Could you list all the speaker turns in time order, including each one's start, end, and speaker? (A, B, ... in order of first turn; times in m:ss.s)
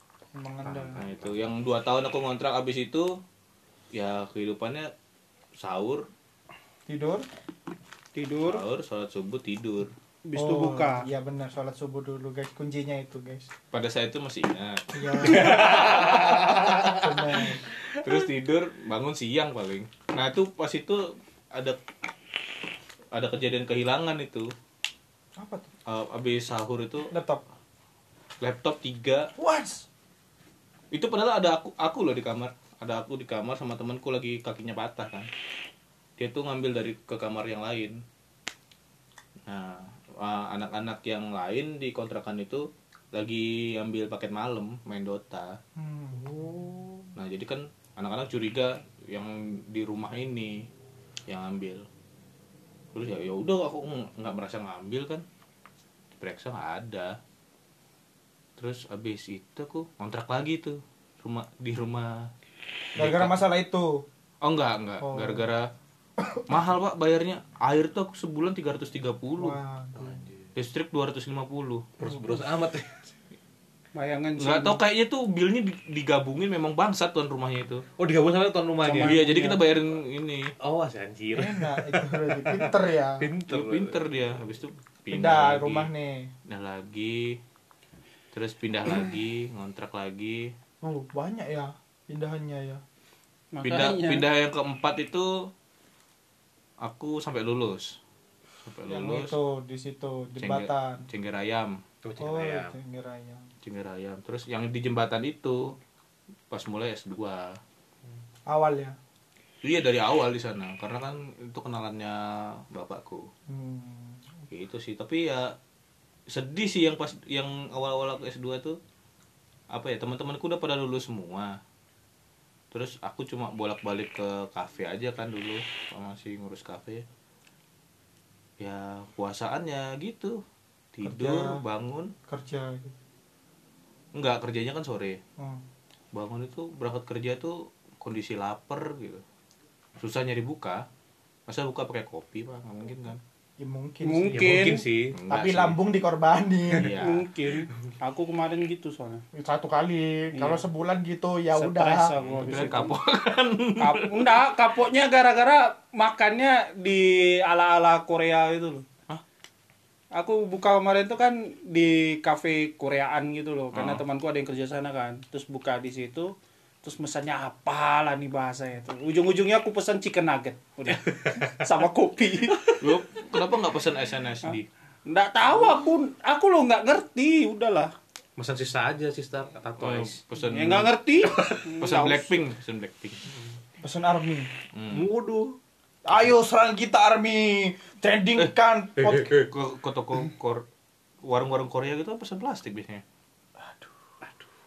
0:00.3-0:01.0 A
0:00.6-0:03.2 B
0:03.9-0:04.9 B
0:05.6-0:06.1 B
0:06.9-0:07.2 A
0:08.1-0:08.6 C
0:08.5-0:09.9 B
0:10.2-0:11.1 C
0:10.4-0:13.5 A
0:13.7-0:17.0 B
0:14.9-0:17.6 A
0:15.4-0:16.8 D
0:18.0-0:21.8 B
0:23.1-0:24.5 B
0:25.4-0:25.7 A
0:25.9-0:27.1 B
0:27.1-0:27.4 A
0:28.4-0:29.3 B
0:29.4-0:29.9 A
0:30.9-0:35.3 B
0:36.2-0:38.0 B
0:39.5-0:45.6 B
0:45.8-0:47.0 A
0:47.2-0:50.7 B
0:51.3-0:51.9 B
0:52.9-0:55.2 B
0:56.2-0:57.2 B
0:58.6-1:02.3 B
1:03.0-1:03.4 B
1:03.0-1:04.0 A
1:04.4-1:05.7 B
1:05.0-1:05.5 A
1:06.2-1:06.4 A
1:06.5-1:09.6 B
1:09.4-1:10.2 A
1:10.0-1:10.5 D
1:10.6-1:12.0 B
1:12.0-1:13.1 D
1:13.9-1:14.8 C
1:14.4-1:17.8 B
1:18.0-1:19.2 D
1:18.8-1:19.6 C
1:19.0-1:20.5 B
1:20.6-1:24.0 D
1:21.4-1:23.3 A
1:23.5-1:25.9 B
1:25.1-1:26.3 A
1:26.5-1:27.4 B
1:28.3-1:30.5 B
1:30.8-1:32.8 A
1:33.5-1:34.2 C
1:33.6-1:35.5 B
1:36.8-1:38.0 B
1:38.6-1:39.4 B
1:38.9-1:41.1 A
1:40.4-1:41.8 B
1:42.0-1:42.8 D
1:42.2-1:43.5 A
1:43.6-1:45.7 B
1:46.5-1:47.6 B
1:48.5-1:49.0 A
1:49.6-1:53.3 B
1:53.5-1:54.2 A
1:54.5-1:55.5 B
1:56.3-1:58.8 B
1:59.7-2:01.6 B
2:02.7-2:07.0 B
2:08.6-2:10.4 B
2:10.9-2:12.1 B
2:11.0-2:11.6 A
2:12.3-2:12.9 A
2:14.2-2:15.2 B
2:15.4-2:15.6 A
2:16.1-2:19.2 B
2:20.0-2:20.9 B
2:21.5-2:23.2 B
2:23.6-2:24.7 A
2:24.0-2:24.9 C
2:24.3-2:25.2 D
2:24.5-2:25.8 B
2:25.3-2:27.0 A
2:26.7-2:27.3 B
2:26.8-2:29.3 C
2:29.3-2:32.2 A
2:30.3-2:30.6 C
2:31.5-2:33.0 C
2:32.2-2:34.4 B
2:33.8-2:38.9 C
2:40.1-2:52.8 C
2:43.7-2:44.0 B
2:52.8-2:54.7 B
2:55.1-2:57.9 C
2:58.4-3:00.2 D
2:59.8-3:03.2 B
3:00.4-3:02.4 C
3:03.8-3:04.5 A
3:04.7-3:05.1 B
3:04.9-3:05.6 D
3:06.1-3:09.3 A
3:09.0-3:09.4 D
3:09.1-3:10.6 B
3:11.2-3:13.0 B
3:13.6-3:13.9 A